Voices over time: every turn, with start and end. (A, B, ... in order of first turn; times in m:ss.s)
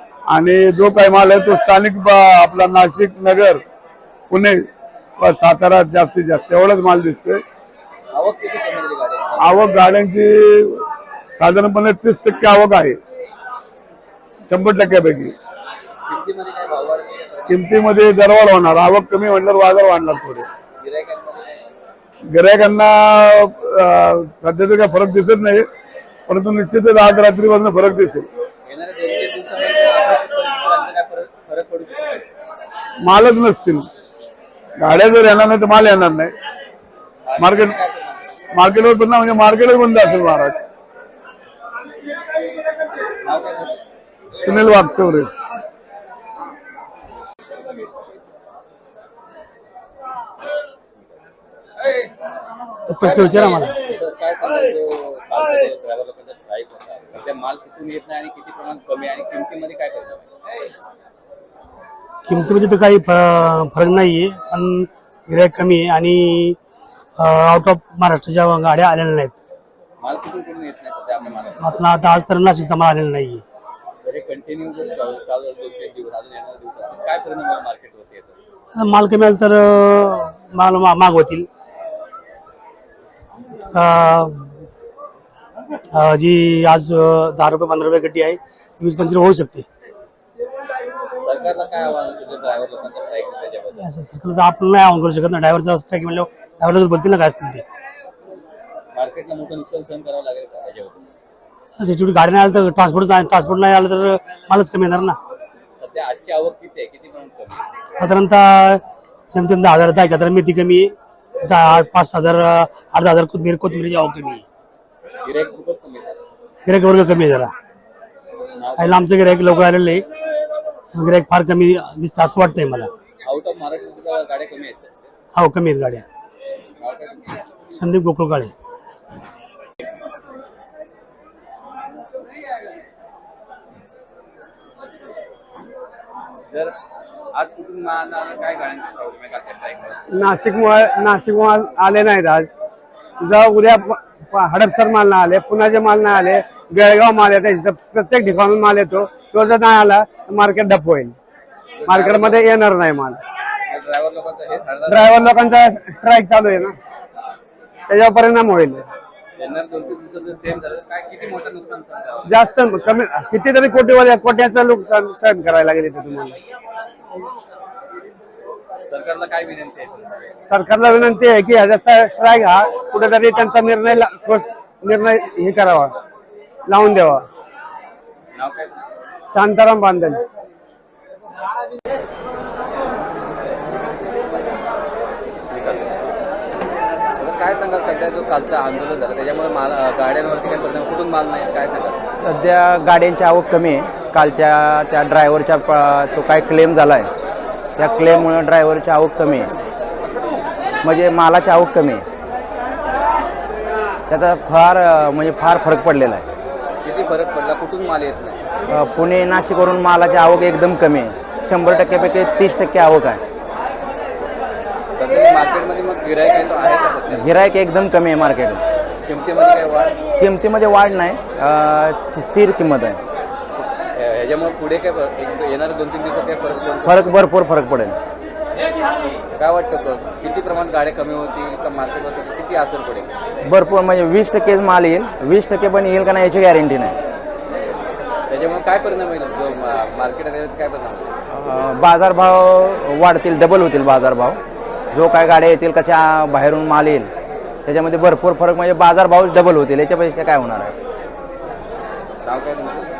0:00.3-0:03.6 A
0:04.3-0:04.7 A
0:05.2-0:07.4 A
0:08.1-0:09.6 B
0:09.4-0:10.8 A
0:11.4-0:13.0 A
0:14.5-0:15.3 A
0:16.1-0:17.7 B
0:17.5-0:20.5 A
0:20.8-0:21.6 B
0:22.3-0:25.7 A
0:26.3-0:28.3 A
0:28.6-0:32.2 B
0:33.0-0:33.9 A
0:34.8-0:36.3 A
0:37.2-0:38.2 B
0:37.4-0:37.8 A
0:38.5-0:40.6 A
0:43.2-0:43.8 B
0:44.4-0:45.3 A
0:44.4-0:45.0 B
0:52.9-0:53.7 C
0:52.9-1:00.3 B
1:02.3-1:06.6 C
1:07.2-1:09.4 C
1:10.0-1:11.8 B
1:11.6-1:13.4 C
1:14.0-1:18.4 B
1:18.7-1:21.5 C
1:23.7-1:24.5 C
1:25.9-1:29.6 C
1:31.2-1:33.9 B
1:33.8-1:37.6 C
1:38.9-1:41.1 B
1:41.8-1:45.2 C
1:45.8-1:47.6 B
1:48.0-1:48.8 C
1:49.3-1:50.9 C
1:51.4-1:54.4 C
1:55.2-1:56.2 B
1:56.6-1:57.5 C
1:58.6-1:59.1 B
1:58.8-2:00.0 C
2:00.9-2:02.9 C
2:03.2-2:04.9 B
2:05.3-2:06.0 C
2:06.8-2:07.4 B
2:07.7-2:08.5 C
2:16.5-2:16.7 B
2:17.3-2:20.0 B
2:20.1-2:22.5 D
2:23.2-2:31.1 D
2:31.8-2:32.5 B
2:31.9-2:33.2 D
2:33.7-2:35.2 B
2:34.9-2:36.8 D
2:37.9-2:38.8 D
2:39.4-2:42.4 B
2:42.2-2:46.4 D
2:48.9-2:50.1 B
2:50.5-2:55.9 D
2:56.7-2:57.2 D
2:58.3-2:58.7 B
2:59.3-3:00.2 D
3:05.5-3:05.9 B
3:07.2-3:12.0 B
3:12.2-3:17.1 E
3:17.8-3:19.5 E
3:20.8-3:22.0 E
3:24.1-3:26.2 E
3:26.8-3:28.4 B
3:28.7-3:33.2 E
3:34.9-3:37.3 B
3:37.1-3:38.6 E
3:39.0-3:40.0 B
3:40.2-3:43.0 E
3:43.9-3:47.2 B
3:46.8-3:48.0 E
3:49.3-3:53.1 B
3:53.4-3:57.0 E
3:58.3-4:01.1 B
4:01.3-4:04.4 E
4:04.9-4:07.1 E
4:07.6-4:10.7 E
4:12.2-4:12.9 B